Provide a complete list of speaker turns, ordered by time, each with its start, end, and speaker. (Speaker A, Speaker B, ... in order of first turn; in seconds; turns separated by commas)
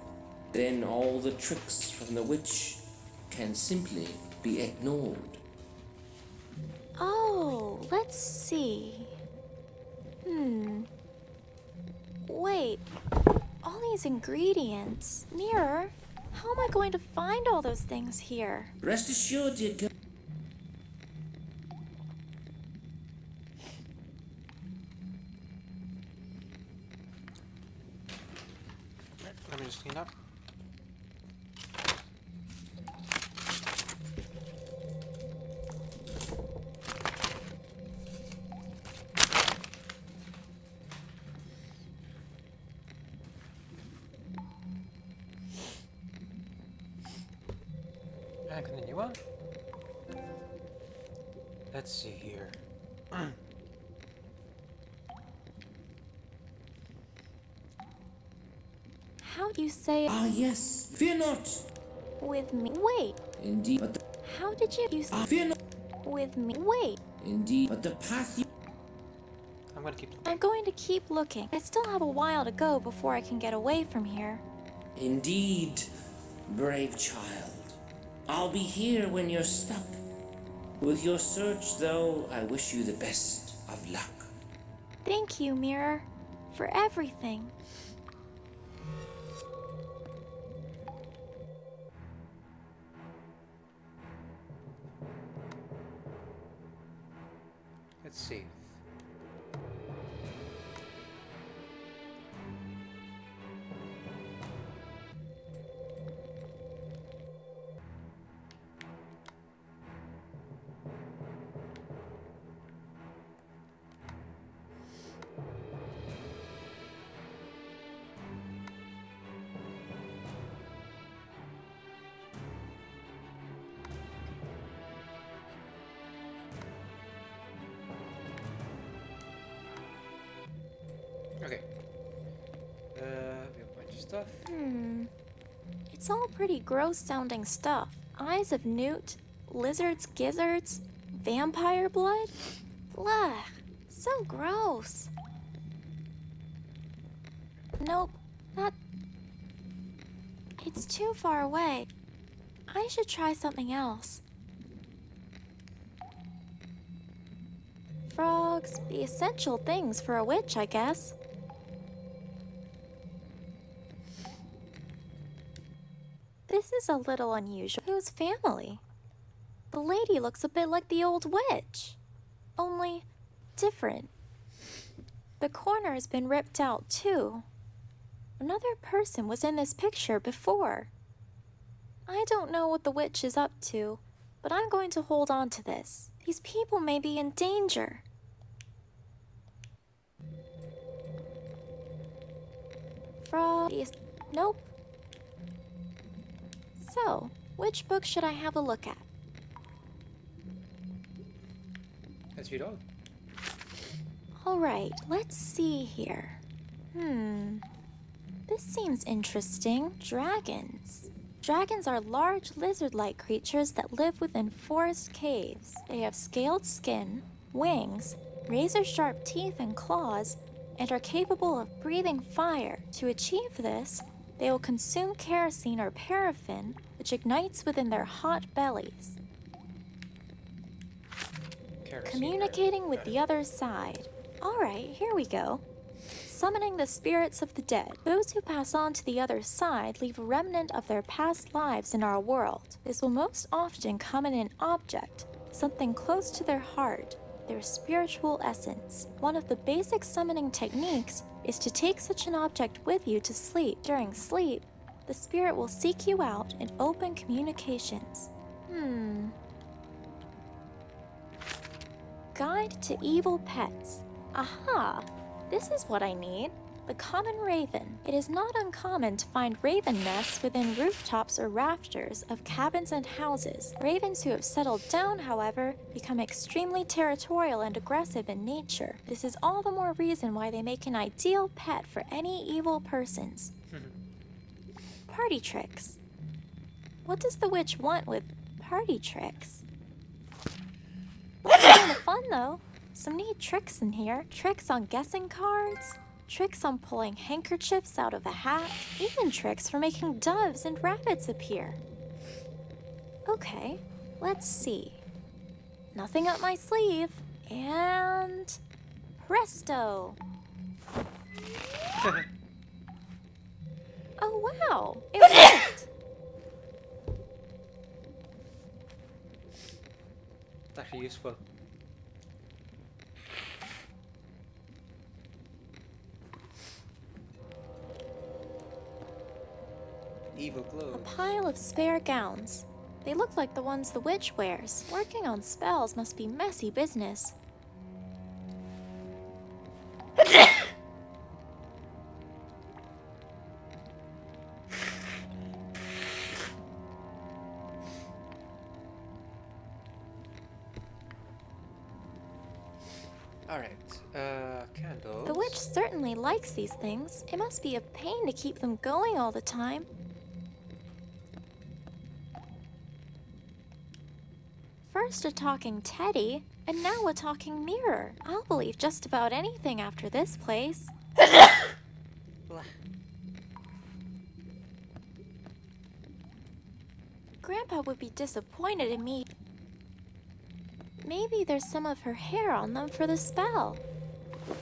Speaker A: 0.5-5.4, Speaker B: 7.0-9.1, Speaker B: 10.2-10.9, Speaker B: 12.2-12.8, Speaker B: 13.6-18.7, Speaker A: 18.8-19.9, Speaker C: 29.2-30.1, Speaker C: 48.5-49.2, Speaker C: 51.7-52.6, Speaker B: 59.2-60.1, Speaker A: 60.1-61.7, Speaker B: 62.2-63.2, Speaker A: 63.4-64.0, Speaker B: 64.2-65.3, Speaker A: 65.1-65.5, Speaker B: 66.0-67.0, Speaker A: 67.2-68.4, Speaker C: 69.7-70.4, Speaker B: 70.2-74.4, Speaker A: 75.0-75.9, Speaker A: 76.5-80.0, Speaker A: 80.8-84.3, Speaker B: 85.0-87.5, Speaker C: 98.0-98.8, Speaker C: 132.9-134.5, Speaker B: 134.4-135.1, Speaker B: 135.9-142.3, Speaker B: 142.9-145.1, Speaker B: 147.8-148.7, Speaker B: 150.6-151.9, Speaker B: 152.7-154.2, Speaker B: 158.1-161.2, Speaker B: 166.5-168.8, Speaker B: 169.7-172.0, Speaker B: 172.6-173.1, Speaker B: 173.6-174.1, Speaker B: 175.4-177.4, Speaker B: 178.4-180.9, Speaker B: 182.1-188.0, Speaker B: 193.2-194.7, Speaker B: 196.8-199.0, Speaker C: 202.3-202.8, Speaker B: 204.4-206.4, Speaker B: 206.9-207.6, Speaker B: 208.5-229.2, Speaker C: 231.8-233.2, Speaker B: 232.0-235.6, Speaker B: 236.2-259.3, Speaker B: 262.3-283.5, Speaker B: 285.1-286.0, Speaker B: 287.1-289.6, Speaker B: 291.4-301.8, Speaker B: 303.2-305.0, Speaker B: 305.9-308.6, Speaker B: 309.2-310.2, Speaker B: 314.2-315.9, Speaker C: 320.7-321.4, Speaker C: 330.3-331.3, Speaker B: 330.9-337.3, Speaker C: 353.5-355.6, Speaker B: 355.2-359.9, Speaker B: 364.9-370.9, Speaker C: 372.5-372.8, Speaker B: 377.4-379.3, Speaker B: 381.0-383.8